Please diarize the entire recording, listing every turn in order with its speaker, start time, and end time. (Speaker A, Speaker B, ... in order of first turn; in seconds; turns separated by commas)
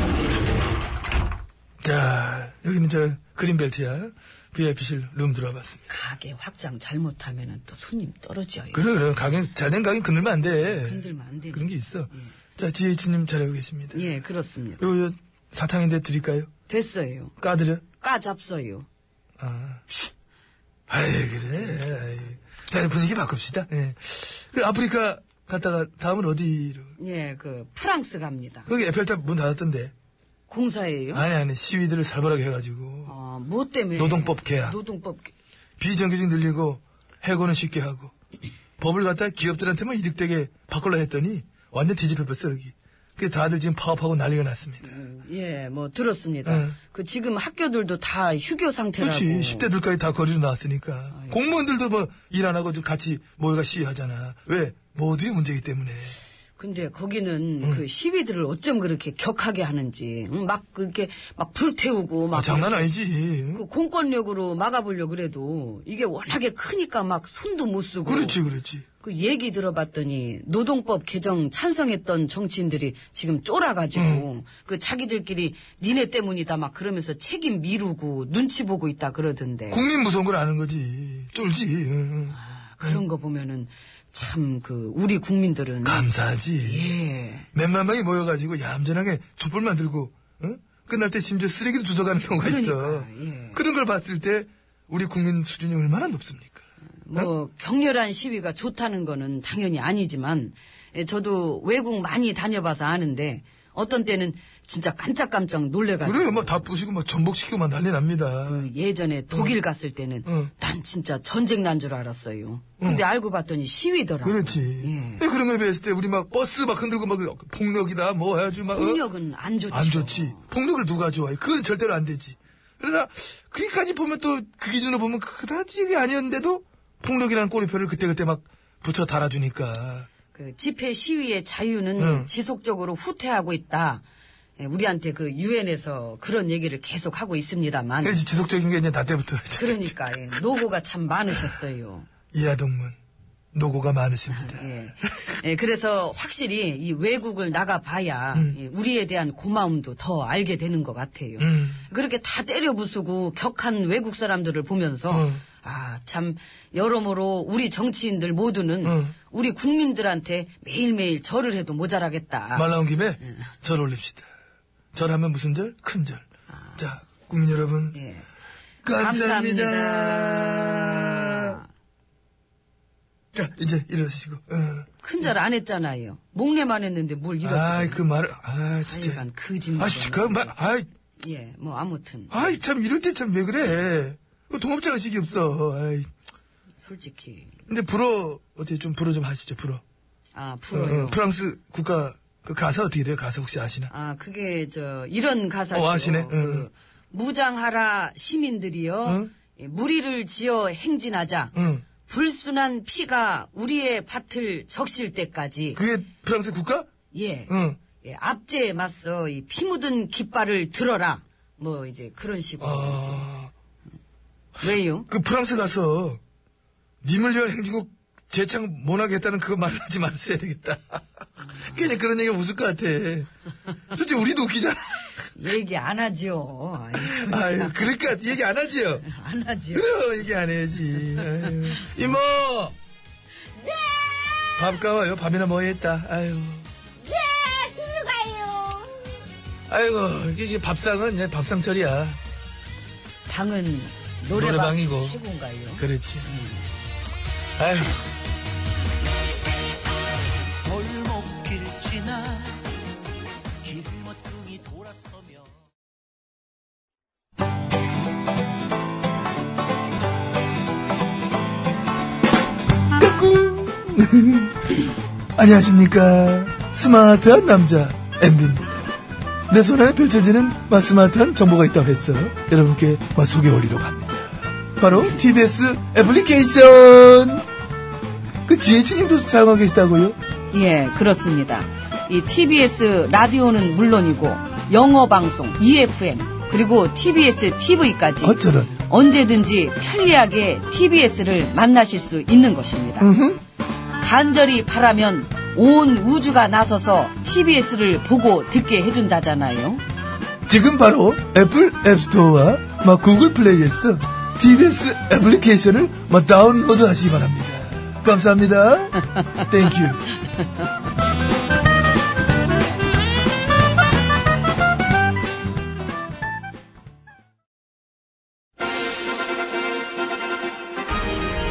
Speaker A: 1.8-5.9, Speaker B: 5.9-8.8, Speaker A: 8.7-14.1, Speaker B: 10.5-12.3, Speaker B: 13.9-14.8, Speaker A: 14.8-16.5, Speaker B: 16.7-17.3, Speaker A: 17.4-17.8, Speaker B: 17.9-18.9, Speaker A: 19.4-19.8, Speaker A: 20.9-26.9, Speaker B: 27.0-28.7, Speaker A: 28.7-29.9, Speaker B: 30.5-31.2, Speaker A: 31.1-33.1, Speaker B: 33.0-35.3, Speaker A: 34.0-34.8, Speaker A: 35.8-38.1, Speaker A: 38.8-45.0, Speaker B: 44.8-49.7, Speaker A: 46.5-46.8, Speaker A: 49.0-56.2, Speaker B: 51.1-51.4, Speaker B: 56.6-62.9, Speaker A: 62.3-63.6, Speaker B: 63.5-68.4, Speaker A: 68.0-68.8, Speaker B: 69.0-79.9, Speaker A: 73.9-74.2, Speaker A: 79.7-83.0, Speaker B: 82.3-86.1, Speaker A: 85.8-86.9, Speaker B: 86.6-87.5, Speaker A: 87.5-97.3, Speaker B: 92.4-93.6, Speaker B: 97.0-106.7, Speaker A: 106.0-108.7, Speaker B: 108.5-115.2, Speaker A: 110.2-110.5, Speaker A: 114.2-119.0, Speaker B: 118.7-120.5, Speaker A: 119.7-130.1, Speaker B: 130.3-134.0, Speaker A: 132.0-132.3, Speaker B: 134.6-138.2, Speaker A: 138.0-140.4, Speaker B: 139.6-142.1, Speaker A: 142.3-143.0, Speaker A: 143.5-144.7, Speaker B: 144.3-162.7, Speaker A: 151.4-151.8, Speaker A: 155.1-155.4, Speaker A: 158.8-159.1, Speaker A: 162.5-164.3, Speaker B: 163.2-163.5, Speaker A: 164.9-166.2, Speaker B: 166.5-166.8, Speaker A: 166.8-168.0, Speaker B: 167.9-168.2, Speaker A: 168.8-171.6, Speaker B: 168.9-171.7, Speaker A: 173.3-175.3, Speaker B: 175.0-178.0, Speaker A: 177.4-179.2, Speaker B: 178.9-180.5, Speaker A: 179.8-180.9, Speaker B: 181.2-182.6, Speaker A: 182.3-186.1, Speaker B: 186.8-187.5, Speaker A: 187.7-189.8, Speaker B: 190.3-191.2, Speaker A: 190.7-193.9, Speaker B: 193.9-201.5, Speaker A: 195.7-196.7, Speaker A: 199.0-199.3, Speaker A: 201.5-201.8, Speaker B: 202.1-205.8, Speaker A: 205.7-206.9, Speaker B: 207.1-213.3, Speaker A: 207.5-207.8, Speaker A: 212.6-213.5, Speaker B: 214.6-215.1, Speaker A: 215.1-216.2, Speaker A: 217.0-223.3, Speaker A: 223.9-225.3, Speaker B: 225.3-228.0, Speaker A: 226.9-229.1, Speaker B: 229.0-229.9, Speaker A: 229.7-232.7, Speaker B: 233.5-234.7, Speaker A: 234.6-236.7, Speaker B: 237.0-239.1, Speaker A: 239.7-242.2, Speaker B: 243.3-246.7, Speaker A: 244.3-245.2, Speaker A: 245.8-246.3, Speaker A: 247.6-248.0, Speaker C: 250.6-252.7, Speaker C: 253.6-255.5, Speaker A: 263.0-264.6, Speaker A: 265.4-268.9, Speaker A: 269.5-277.4, Speaker B: 274.9-275.2, Speaker A: 278.4-280.2, Speaker B: 280.5-293.1, Speaker A: 288.2-288.7, Speaker A: 293.0-293.4, Speaker B: 294.0-299.8, Speaker A: 300.5-310.1